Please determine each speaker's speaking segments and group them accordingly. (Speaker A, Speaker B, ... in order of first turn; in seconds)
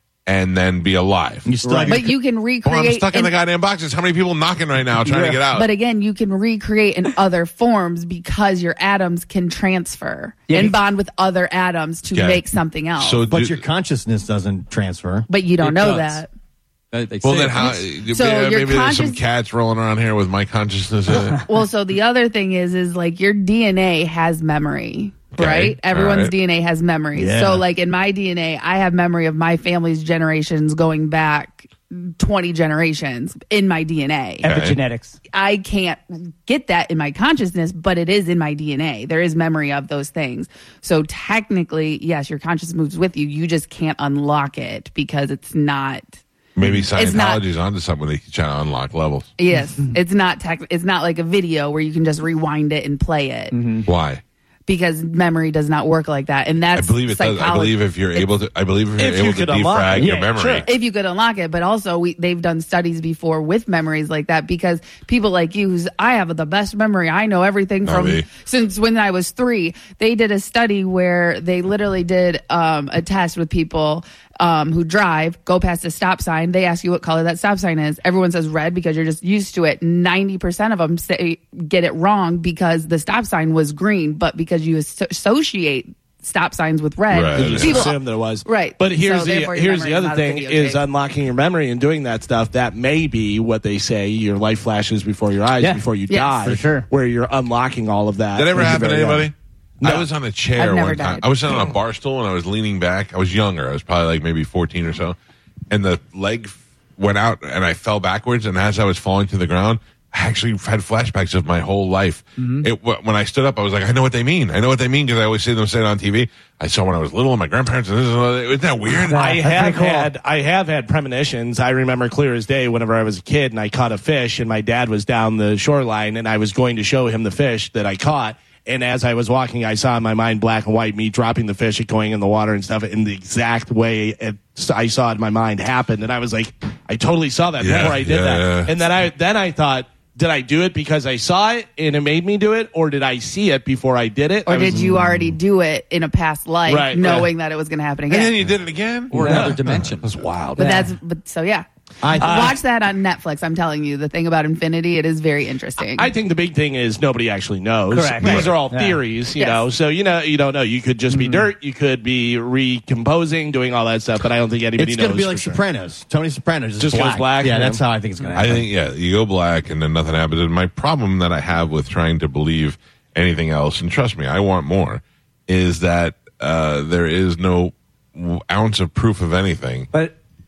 Speaker A: 0.2-1.5, 2.6-5.7, 12.1-12.4, 13.0-13.6, 17.2-21.4, 25.3-26.3, 34.4-34.8, 46.5-49.3, 53.9-54.2, 56.7-60.7, 67.8-68.3, 87.1-87.9, 98.3-105.2, 105.7-119.2, 137.6-138.7, 148.1-149.1, 158.2-158.5, 168.3-179.9
Speaker B: 1.4-2.2, 13.2-15.3, 27.1-27.6, 98.6-99.1, 144.7-145.4, 152.0-152.6, 164.8-168.7
Speaker C: 1.6-2.0, 5.0-5.4, 10.5-10.8, 34.4-35.2, 53.5-53.9, 60.0-60.3, 96.4-96.9, 112.4-112.7, 119.1-120.1, 150.6-150.9, 157.9-159.0, 161.1-161.5
Speaker D: 1.9-3.3, 5.5-13.2, 15.3-16.3, 17.6-19.2, 21.4-34.5, 35.3-46.1, 46.9-47.4, 49.4-53.5, 54.7-58.3, 60.6-90.8, 96.1-96.4, 100.6-101.3, 144.4-148.3, 150.6-156.1, 159.3-159.6
Speaker E: 15.6-16.2, 16.9-17.8, 149.1-150.1
Speaker F: 59.0-60.7, 87.3-99.3, 99.8-100.1, 119.1-144.8, 146.7-147.3, 149.1-150.8, 152.2-152.6, 155.9-165.6, 166.8-167.8